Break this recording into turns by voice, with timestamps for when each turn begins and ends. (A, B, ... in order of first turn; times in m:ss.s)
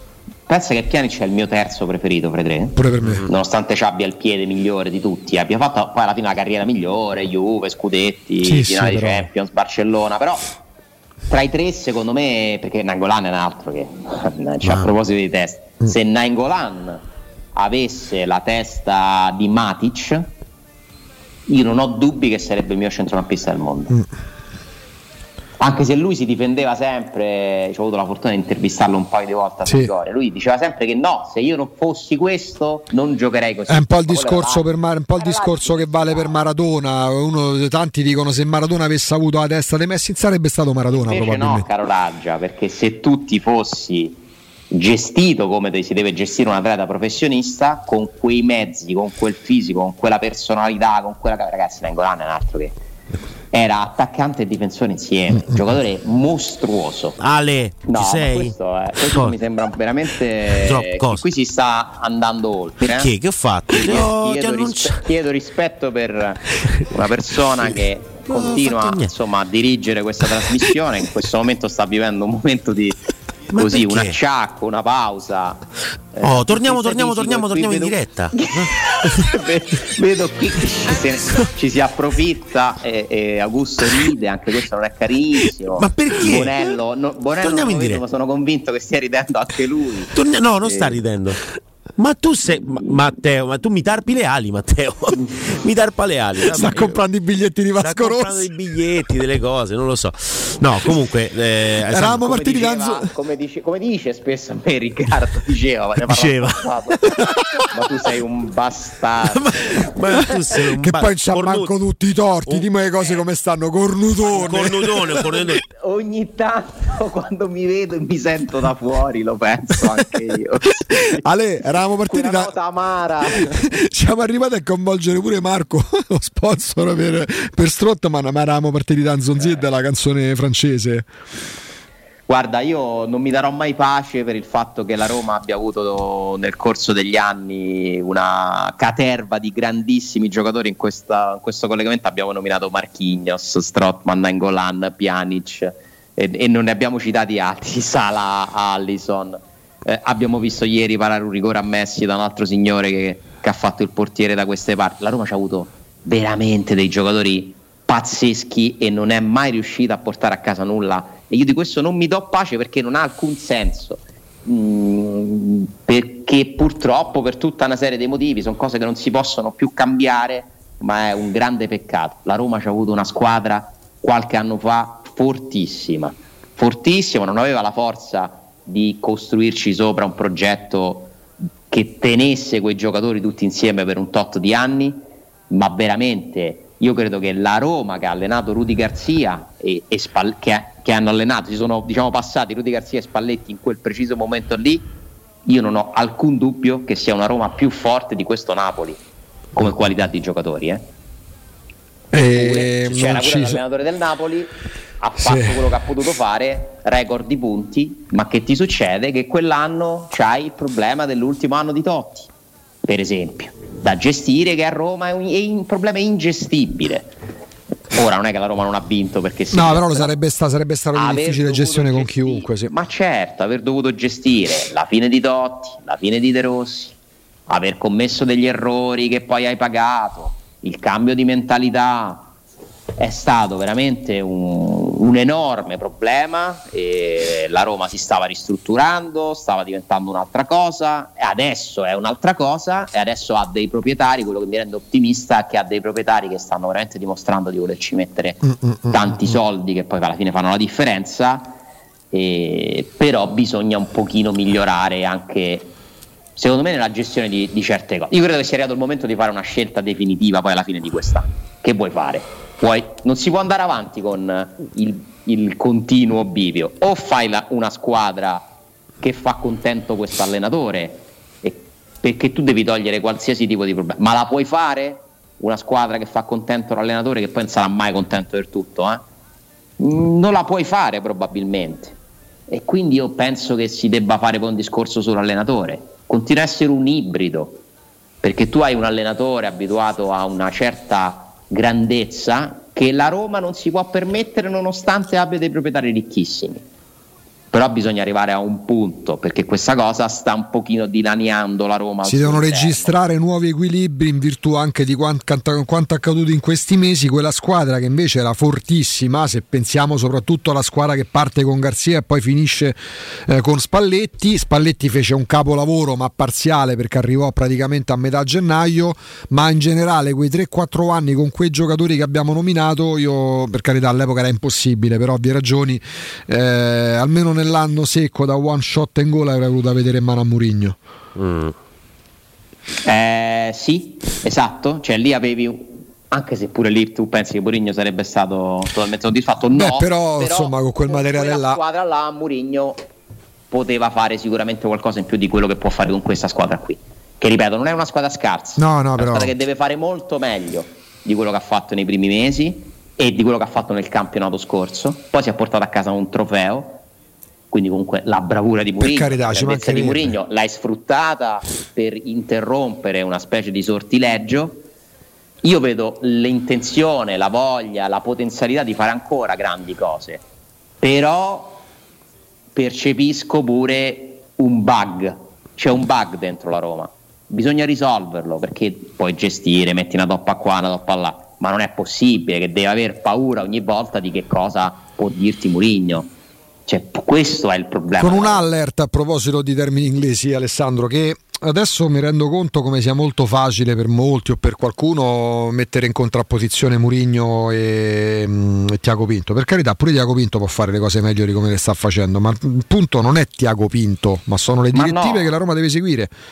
0:00.5-0:10.5 A
0:02.8-0:03.2 B
0:03.0-0:03.3 C
0:08.4-0:09.3 B
0:11.3-0:17.0 A
0:14.6-0:14.9 C
0:17.6-0:20.3 A
0:21.5-0:24.0 A
0:25.6-0:36.5 A
0:29.6-0:29.9 B
0:33.7-0:41.7 B
0:40.9-0:44.2 A
0:44.7-0:52.8 A
0:53.5-0:57.2 A
0:57.2-0:59.4 C
0:57.9-1:03.1 A
1:00.5-1:01.2 C
1:02.8-1:05.0 C
1:03.7-1:13.0 A
1:08.3-1:09.1 C
1:13.5-1:14.1 C
1:13.6-1:31.0 A
1:16.2-1:18.8 C
1:25.7-1:26.7 C
1:27.4-1:28.0 C
1:30.1-1:37.0 C
1:36.4-1:38.6 B
1:37.8-1:42.4 C
1:41.9-1:43.1 B
1:42.2-1:50.4 A
1:46.0-1:47.7 C
1:49.2-1:51.7 C
1:50.1-1:55.5 B
1:54.2-1:55.6 C
1:55.6-2:01.2 A
2:00.9-2:02.5 B
2:02.0-2:03.7 A
2:03.4-2:11.1 B
2:12.3-3:01.1 A
3:01.7-3:14.9 A
3:15.4-3:19.0 A
3:19.5-3:20.9 A
3:22.1-3:23.6 B
3:22.1-3:32.3 A
3:25.2-3:25.6 B
3:32.8-3:37.1 A
3:37.9-3:40.1 A
3:39.5-3:42.7 B
3:40.9-3:47.0 A
3:47.5-3:52.3 A
3:53.0-4:11.6 A
4:08.6-4:09.0 B
4:12.1-4:15.8 A
4:16.4-4:28.5 A
4:29.0-4:39.0 A
4:39.8-4:42.0 A
4:42.5-4:47.6 A
4:48.2-4:56.6 A
4:57.5-5:02.9 A
5:02.0-5:30.8 B
5:31.2-5:31.6 C
5:32.8-5:42.8 A
5:39.5-5:41.6 B
5:43.5-5:56.8 A
5:48.6-5:49.3 B
5:57.5-6:04.6 A
5:58.8-6:00.1 B
6:05.4-6:10.2 A
6:10.8-6:11.7 A
6:12.5-6:26.1 A
6:26.7-6:28.4 A
6:28.0-6:46.1 B
6:44.7-6:45.3 A